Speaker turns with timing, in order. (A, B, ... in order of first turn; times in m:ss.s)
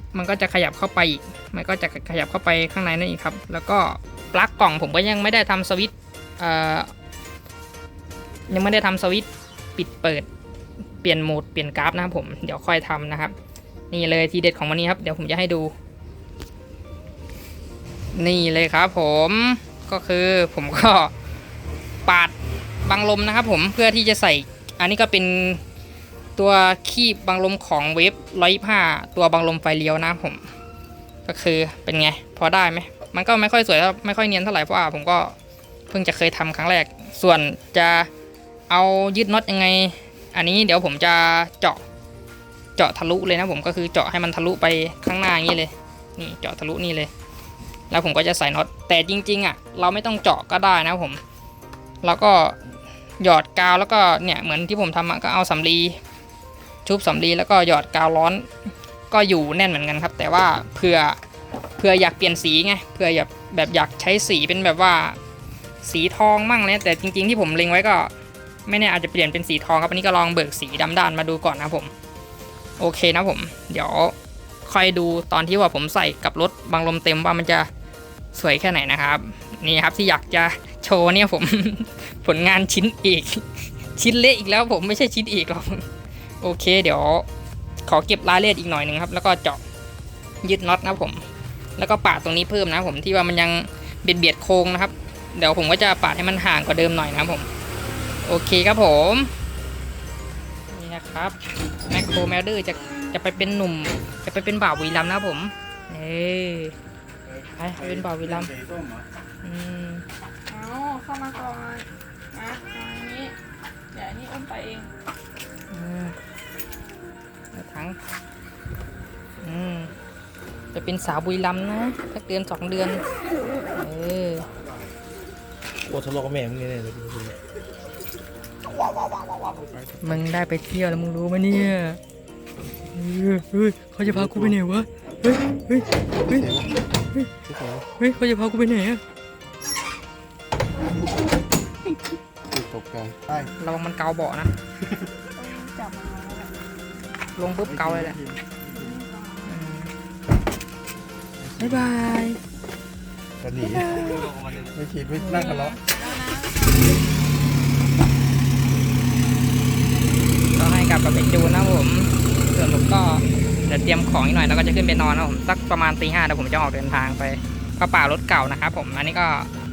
0:00.1-0:06.9 A
0:08.5-0:10.3 A
0:11.0-0:13.3 A
0:13.9-0:15.7 A
0:18.1-0:21.1 A
0:22.0-0:25.6 A
0:26.4-0:30.4 A
0:31.2-0:35.3 A
0:35.9-0:38.1 A
0:38.7-0:41.8 A
0:42.8-0:47.1 A
0:47.9-0:51.2 A
0:52.0-0:52.6 A
0:53.2-0:56.0 A
0:56.8-0:58.5 A
0:59.1-1:01.2 A
1:01.8-1:05.2 A
1:05.8-1:08.1 A
1:08.6-1:11.9 A
1:12.8-1:17.7 A
1:18.3-1:25.9 A
1:26.4-1:27.3 A
1:27.8-1:29.6 A
1:30.4-1:37.5 A
1:38.2-1:39.3 A
1:40.7-1:41.4 A
1:41.9-1:46.7 A
1:47.5-1:48.6 A
1:49.4-1:50.0 A
1:50.5-1:53.3 B
1:53.9-1:54.9 B
1:55.7-1:56.2 A
1:57.5-1:58.0 A
1:59.4-1:59.9 A
2:00.7-2:03.0 A
2:03.7-2:04.5 A
2:05.9-2:07.4 C
2:10.0-2:12.0 A
2:12.9-2:17.3 A
2:17.5-2:17.8 C
2:18.0-2:19.0 A
2:22.5-2:23.2 C
2:23.3-2:24.5 A
2:25.4-2:26.5 B
2:27.3-2:28.2 A
2:28.7-2:29.4 B
2:29.4-2:29.9 A
2:31.6-2:32.4 A
2:33.4-2:35.2 C
2:33.6-2:34.3 A
2:35.1-2:35.7 A
2:35.3-2:37.1 B
2:40.5-2:49.5 A